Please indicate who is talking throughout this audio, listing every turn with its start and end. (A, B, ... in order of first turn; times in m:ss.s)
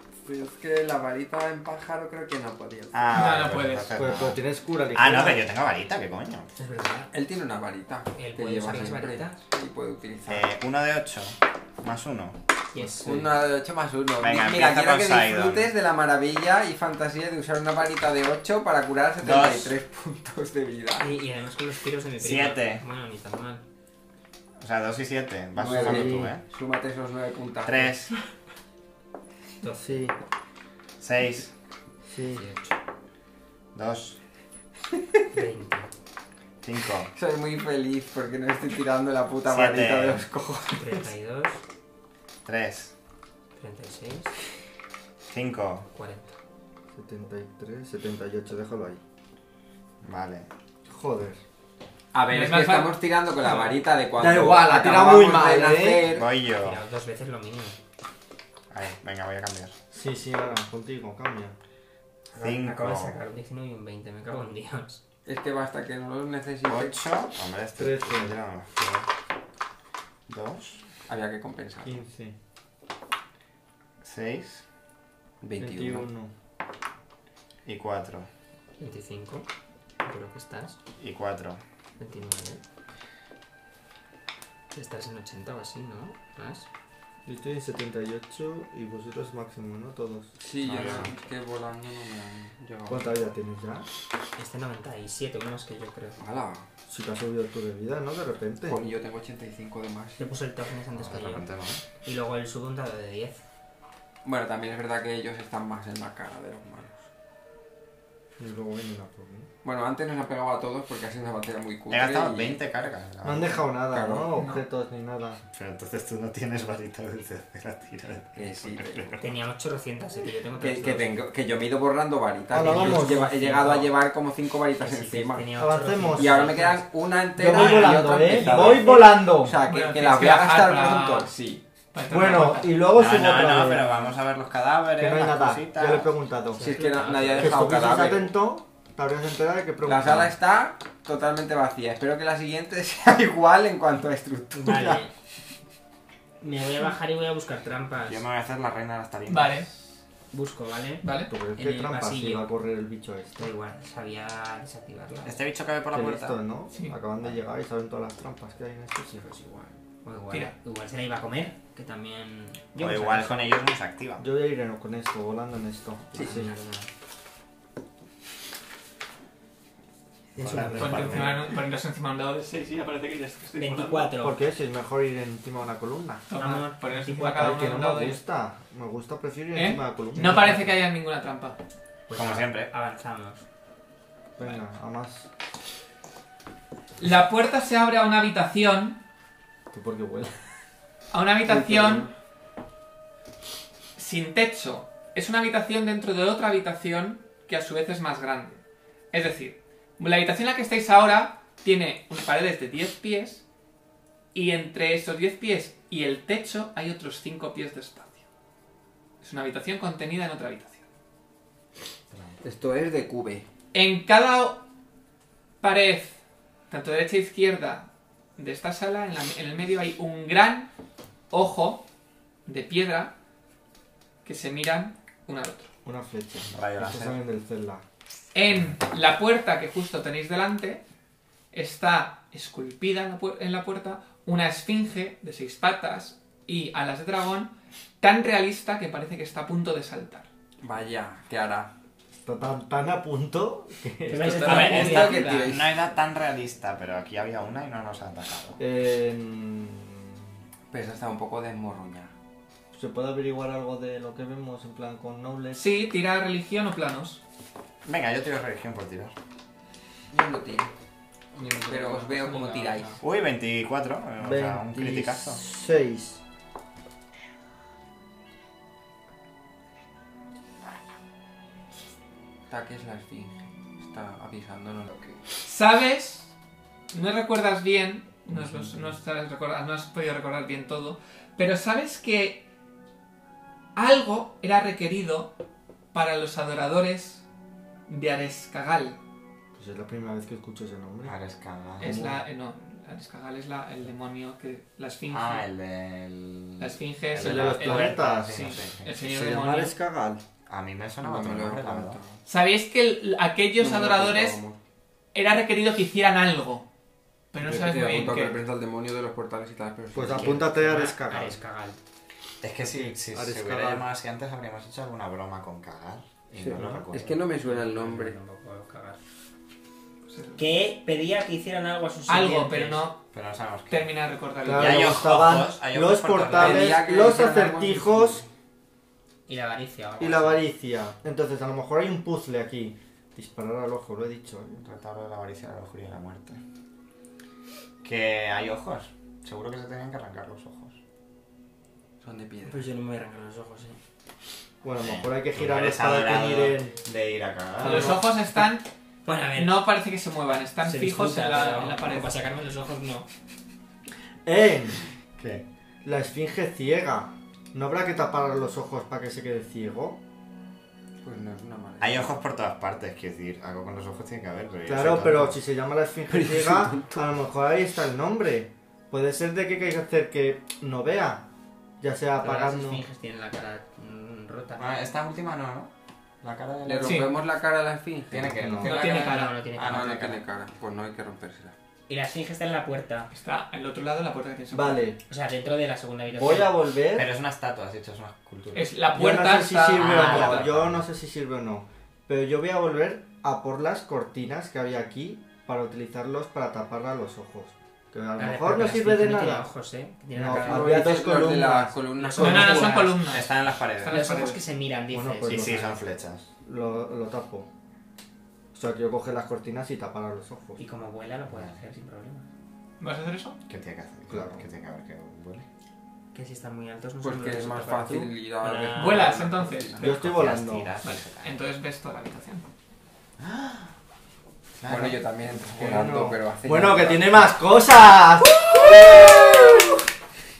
0:00.2-0:03.2 A
0:02.9-0:06.5 B
0:03.1-0:03.9 C
0:03.9-0:05.4 D
0:06.6-0:07.1 E
0:07.1-0:10.5 A
0:08.1-0:09.4 E
0:10.2-0:12.4 B
0:12.7-0:13.3 E
0:13.0-0:21.1 A
0:14.2-0:15.7 B
0:19.2-0:19.8 B
0:21.0-0:23.6 E
0:22.2-0:22.8 B
0:24.6-0:26.4 B
0:25.5-0:27.9 A
0:25.7-0:26.3 D
0:27.6-0:28.1 B
0:29.6-0:30.1 E
0:29.8-0:30.1 D
0:31.0-0:31.5 B
0:32.0-0:32.4 D
0:32.2-0:32.8 E
0:33.7-0:34.2 B
0:35.3-0:35.9 E
0:36.6-0:37.1 B
0:37.1-0:41.1 A
0:39.5-0:40.2 B
0:40.8-0:41.6 E
0:42.4-0:42.9 B
0:43.6-0:44.3 E
0:45.3-0:45.9 B
0:45.9-0:46.3 E
0:46.9-0:49.0 D
0:50.0-0:50.5 B
0:50.9-0:51.4 D
0:52.1-0:56.3 A
0:52.3-0:53.7 C
0:54.2-0:56.1 D
0:56.1-0:56.8 B
0:56.6-0:57.8 E
0:58.7-0:59.7 B
0:59.9-1:01.6 D
1:02.3-1:03.2 B
1:02.4-1:05.0 E
1:05.2-1:07.1 A
1:06.6-1:09.1 B
1:07.8-1:08.4 D
1:10.3-1:10.8 B
1:11.0-1:12.0 A
1:11.8-1:12.3 D
1:14.0-1:14.6 B
1:15.4-1:16.1 A
1:15.6-1:16.3 D
1:17.6-1:18.3 B
1:18.8-1:19.5 E
1:20.0-1:20.8 E
1:21.0-1:21.6 B
1:22.0-1:22.6 E
1:24.7-1:26.7 E
1:27.2-1:30.8 D
1:30.4-1:33.3 A
1:30.6-1:31.1 B
1:32.9-1:33.8 D
1:34.4-1:36.2 E
1:36.2-1:36.7 A
1:36.9-1:38.8 D
1:38.7-1:40.3 A
1:40.2-1:41.5 E
1:40.9-1:41.8 B
1:42.0-1:43.4 E
1:44.2-1:47.0 A
1:48.4-1:49.5 D
1:49.6-1:52.6 A
1:51.9-1:53.7 B
1:53.2-1:55.4 D
1:53.9-1:54.3 A
1:54.3-1:54.6 C
1:55.5-1:59.2 B
1:58.4-1:59.2 A
1:59.2-2:01.1 E
2:00.6-2:05.5 A
2:02.5-2:03.3 D
2:02.5-2:03.9 E
2:04.7-2:06.8 E
2:05.6-2:06.5 D
2:06.1-2:11.6 A
2:07.3-2:09.6 D
2:07.5-2:08.7 E
2:09.6-2:11.3 C
2:11.9-2:12.8 C
2:12.1-2:13.8 D
2:12.9-2:16.1 B
2:13.2-2:14.1 E
2:15.0-2:16.7 D
2:16.5-2:18.0 E
2:16.6-2:18.4 A
2:17.4-2:20.3 D
2:19.8-2:25.0 A
2:24.5-2:25.1 E
2:26.4-2:28.2 E
2:28.1-2:29.9 B
2:29.3-2:29.7 C
2:30.3-2:32.5 E
2:31.0-2:31.3 C
2:31.3-2:33.5 D
2:33.4-2:35.4 E
2:35.2-2:36.4 B
2:35.9-2:39.2 D
2:39.1-2:43.5 E
2:42.8-2:44.2 B
2:44.2-2:46.5 D
2:46.1-2:46.4 A
2:46.1-2:46.9 E
2:50.4-2:51.3 E
2:50.4-2:51.3 B
2:50.4-2:51.4 D
2:50.8-2:54.1 C
2:53.5-2:54.4 E
2:54.2-2:56.3 D
2:56.3-2:58.2 C
2:56.3-2:57.8 E
2:57.2-3:00.7 D
2:59.5-3:01.6 C
3:02.1-3:03.4 E
3:02.1-3:02.7 B
3:04.4-3:05.3 D
3:07.0-3:09.0 C
3:09.7-3:10.4 D
3:11.1-3:12.1 C
3:11.5-3:12.1 A
3:14.0-3:23.4 C
3:24.3-3:28.2 C
3:29.2-3:30.8 C
3:32.1-3:32.4 B
3:32.4-3:33.4 A
3:33.7-3:34.6 C
3:35.6-3:40.7 C
3:41.3-3:41.8 C
3:42.4-3:43.1 C
3:44.2-3:45.7 C
3:45.8-3:47.8 D
3:46.5-3:47.2 B
3:48.3-3:50.8 C
3:48.5-3:48.8 B
3:51.5-4:00.3 C
4:00.6-4:01.7 A
4:02.2-4:04.7 D
4:04.1-4:05.4 E
4:04.1-4:05.8 A
4:04.5-4:08.6 B
4:04.5-4:05.4 C
4:08.6-4:10.2 D
4:10.7-4:12.1 A
4:12.7-4:15.6 D
4:15.5-4:17.2 C
4:17.8-4:19.1 B
4:20.1-4:20.7 A
4:21.4-4:23.0 E
4:21.6-4:23.0 A
4:23.0-4:25.4 B
4:24.2-4:26.2 D
4:32.5-4:35.2 A
4:35.4-4:36.3 C
4:36.9-4:42.4 C
4:43.7-4:45.3 C
4:45.9-4:47.2 C
4:47.9-4:49.0 C
4:49.5-4:51.1 D
4:51.0-4:52.1 B
4:51.8-4:52.2 D
4:51.8-4:55.4 C
4:55.1-4:58.9 B
4:56.6-4:59.7 C
4:57.2-4:58.4 D
4:59.0-5:00.2 D
5:00.5-5:02.0 B
5:01.0-5:02.2 A
5:02.2-5:04.4 C
5:03.6-5:04.6 A
5:05.1-5:06.7 C
5:07.3-5:08.4 C
5:07.4-5:10.5 A
5:09.9-5:11.4 D
5:10.0-5:11.8 E
5:12.4-5:17.2 B
5:12.6-5:13.8 D
5:16.4-5:18.2 A
5:16.6-5:16.9 D
5:17.4-5:19.0 E
5:20.1-5:20.4 C
5:20.4-5:22.9 E
5:22.1-5:23.0 C
5:23.1-5:23.9 B
5:23.7-5:25.0 C
5:24.4-5:28.2 D
5:24.4-5:26.8 B
5:26.3-5:28.3 A
5:29.3-5:30.5 E
5:30.0-5:34.6 D
5:34.6-5:36.4 B
5:37.8-5:40.8 B
5:42.0-5:42.7 A
5:42.4-5:43.8 E
5:44.6-5:46.8 D
5:44.8-5:48.0 B
5:47.6-5:48.0 D
5:47.6-5:48.6 C
5:49.0-5:49.6 E
5:49.4-5:52.1 C
5:50.6-5:53.1 E
5:54.2-5:54.8 D
5:55.2-5:55.4 B
5:55.8-6:00.0 D
6:01.0-6:02.2 A
6:01.8-6:05.4 B
6:04.7-6:11.3 D
6:06.1-6:07.1 A
6:11.8-6:12.8 D
6:12.2-6:14.8 E
6:14.6-6:17.1 B
6:16.6-6:18.4 A
6:16.8-6:17.1 C
6:18.1-6:20.2 B
6:18.3-6:18.7 D
6:18.6-6:19.4 C
6:18.6-6:20.1 E
6:19.6-6:21.5 A
6:21.9-6:23.1 E
6:23.1-6:24.9 C
6:24.5-6:25.0 D
6:25.1-6:26.5 E
6:26.2-6:27.1 D
6:26.9-6:28.7 B
6:28.5-6:30.4 C
6:28.9-6:39.5 D
6:29.7-6:30.8 B
6:38.2-6:41.0 E
6:40.1-6:41.7 D
6:40.2-6:43.0 A
6:42.0-6:43.0 E
6:42.2-6:44.4 C
6:43.0-6:44.2 B
6:43.8-6:45.7 E
6:44.9-6:45.8 D
6:45.2-6:46.2 B
6:46.4-6:47.5 D
6:48.5-6:50.6 D
6:50.6-6:52.3 E
6:51.3-6:51.6 B
6:52.8-6:53.4 C
6:53.5-6:55.5 B
6:54.1-6:54.4 D
6:56.1-6:59.1 E
6:57.0-6:59.8 A
6:58.7-7:00.0 C
6:59.8-7:00.7 D
6:59.8-7:01.4 B
7:00.8-7:02.4 C
7:03.2-7:03.7 B
7:04.6-7:05.0 B
7:04.6-7:07.3 A
7:05.5-7:09.8 D